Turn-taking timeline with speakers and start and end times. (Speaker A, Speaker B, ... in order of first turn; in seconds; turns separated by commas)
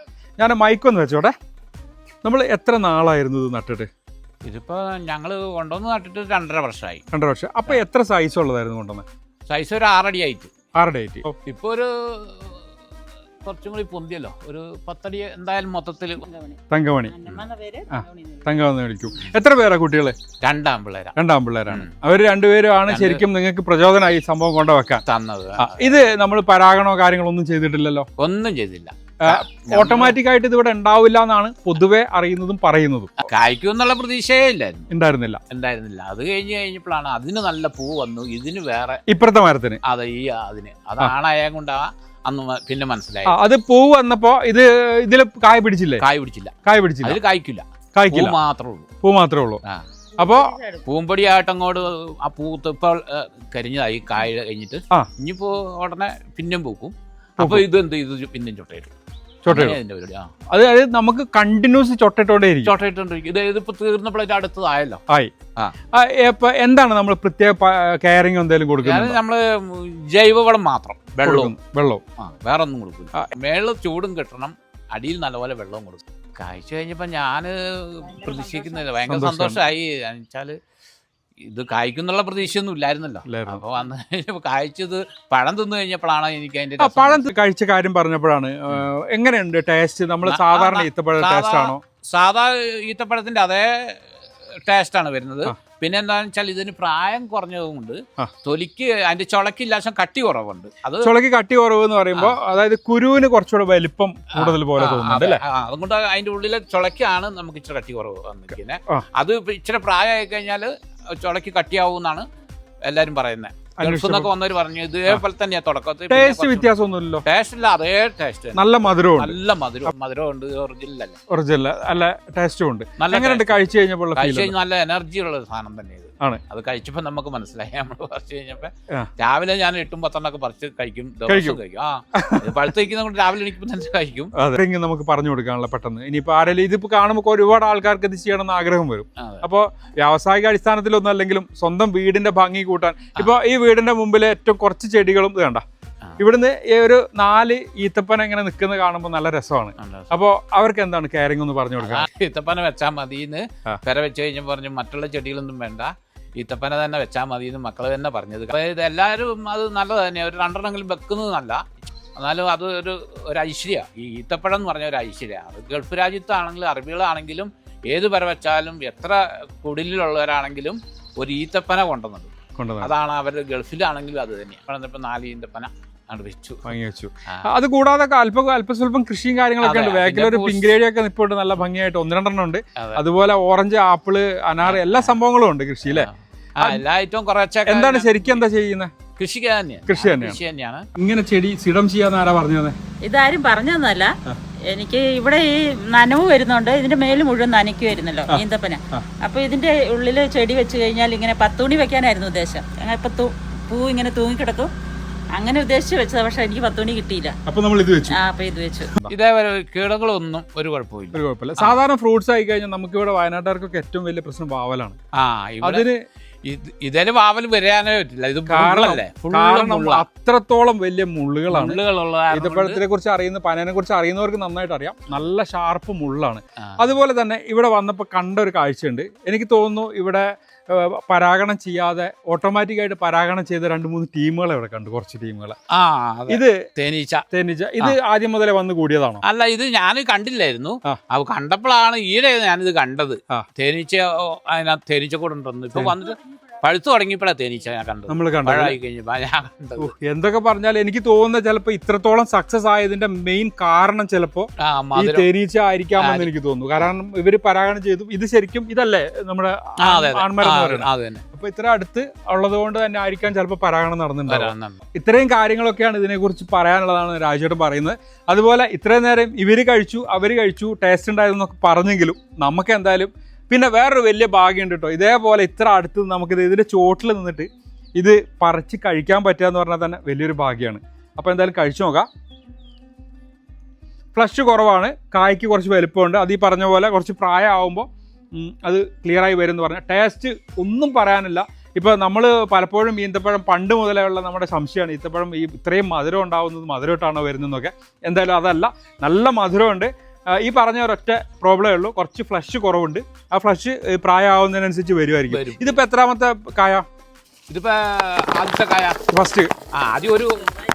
Speaker A: 0.4-1.3, Speaker A: 2.2-3.9, Speaker B: 4.4-7.0, Speaker A: 7.1-9.1, Speaker B: 9.5-10.5, Speaker A: 10.8-11.3, Speaker B: 11.5-12.6, Speaker B: 13.4-16.3, Speaker C: 16.2-18.6, Speaker A: 16.7-17.2, Speaker A: 17.9-20.1, Speaker B: 20.4-21.2, Speaker A: 21.2-25.0, Speaker B: 22.9-23.2, Speaker B: 25.1-25.8, Speaker A: 25.6-28.1, Speaker B: 28.2-30.2, Speaker A: 29.2-33.1, Speaker B: 33.2-34.9, Speaker A: 34.9-35.4, Speaker B: 35.5-39.0, Speaker A: 39.1-39.8, Speaker B: 39.8-43.4, Speaker A: 43.3-46.0, Speaker B: 46.0-48.9, Speaker A: 46.6-47.2, Speaker A: 48.0-48.4, Speaker A: 49.0-49.6, Speaker A: 50.2-50.5, Speaker C: 50.2-50.8, Speaker B: 50.9-58.9, Speaker A: 57.4-57.7, Speaker A: 59.5-59.8, Speaker B: 59.5-60.3, Speaker A: 60.5-62.7, Speaker B: 62.6-65.0, Speaker A: 65.9-69.2, Speaker B: 68.8-71.5, Speaker A: 71.2-72.0, Speaker B: 72.2-80.6, Speaker C: 78.1-78.9, Speaker A: 79.1-79.6, Speaker B: 81.4-87.2, Speaker A: 83.3-83.6, Speaker A: 86.8-91.8, Speaker B: 90.3-94.1, Speaker B: 94.6-101.1, Speaker A: 101.0-105.4, Speaker B: 104.3-112.3, Speaker B: 112.8-116.7, Speaker A: 113.8-114.3, Speaker A: 116.1-117.2, Speaker B: 117.2-121.2, Speaker A: 118.5-119.4, Speaker A: 121.3-124.5, Speaker B: 123.0-134.3, Speaker A: 131.3-131.6, Speaker A: 132.1-132.7, Speaker A: 134.4-145.6, Speaker B: 139.2-139.4, Speaker A: 146.2-152.1, Speaker B: 149.8-150.1, Speaker B: 151.8-161.6, Speaker B: 162.2-176.7, Speaker A: 172.6-172.9, Speaker A: 176.7-186.1, Speaker B: 179.6-180.8, Speaker B: 184.6-185.2, Speaker B: 185.9-188.4, Speaker A: 187.7-188.9, Speaker B: 189.2-190.9, Speaker A: 189.9-190.4, Speaker A: 191.0-192.8, Speaker C: 193.1-194.1, Speaker C: 194.7-204.7, Speaker A: 198.3-199.1, Speaker C: 205.3-207.4, Speaker A: 207.5-208.2, Speaker C: 208.1-208.9, Speaker B: 209.1-211.8, Speaker A: 211.1-215.0, Speaker B: 215.2-215.8, Speaker A: 215.6-216.0, Speaker B: 216.4-220.0, Speaker A: 218.5-221.8, Speaker B: 221.5-222.8, Speaker A: 222.3-235.6, Speaker B: 226.6-226.9, Speaker B: 235.7-237.2, Speaker A: 236.3-236.6, Speaker A: 237.3-239.2, Speaker B: 239.2-249.9, Speaker A: 248.1-248.8, Speaker A: 249.8-282.1, Speaker B: 254.6-255.3, Speaker B: 256.0-256.3, Speaker B: 259.8-261.2, Speaker B: 264.3-264.8, Speaker A: 284.2-306.9, Speaker B: 305.3-305.7, Speaker B: 307.5-309.0, Speaker A: 309.1-309.5, Speaker B: 309.7-310.5